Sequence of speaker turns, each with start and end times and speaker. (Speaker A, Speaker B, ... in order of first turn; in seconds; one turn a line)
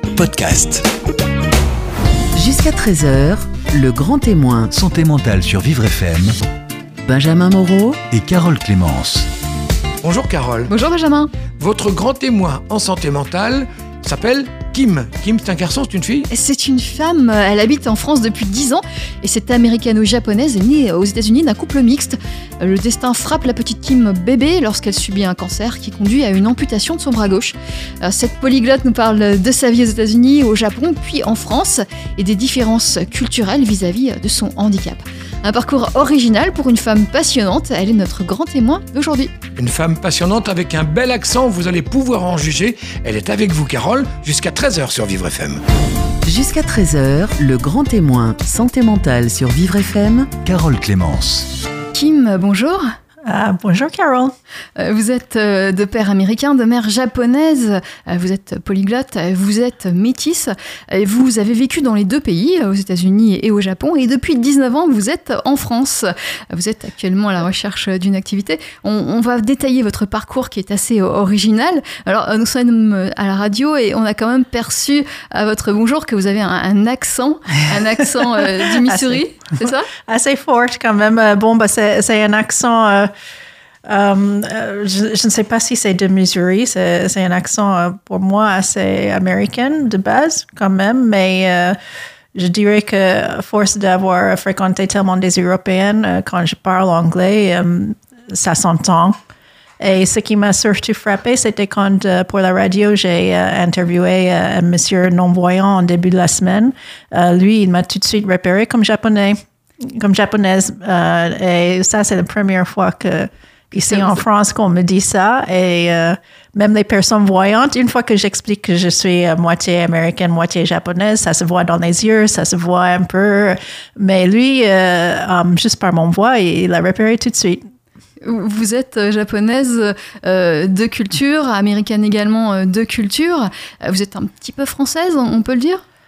Speaker A: 0.1-0.9
Speaker B: 2.4-4.7
Speaker A: 4.7-6.3
Speaker B: 7.1-8.0
Speaker A: 8.1-9.3
Speaker C: 10.0-10.7
Speaker D: 10.7-11.3
Speaker C: 11.6-16.3
Speaker D: 16.3-39.3
Speaker C: 39.6-45.6
Speaker B: 46.2-50.4
Speaker A: 50.4-51.5
Speaker D: 51.9-52.9
Speaker E: 53.2-54.3
Speaker D: 54.8-79.9
Speaker E: 78.6-79.2
Speaker E: 80.0-83.1
Speaker E: 83.8-91.8
Speaker E: 92.3-99.2
Speaker E: 99.8-127.6
Speaker D: 113.9-114.2
Speaker D: 128.2-135.8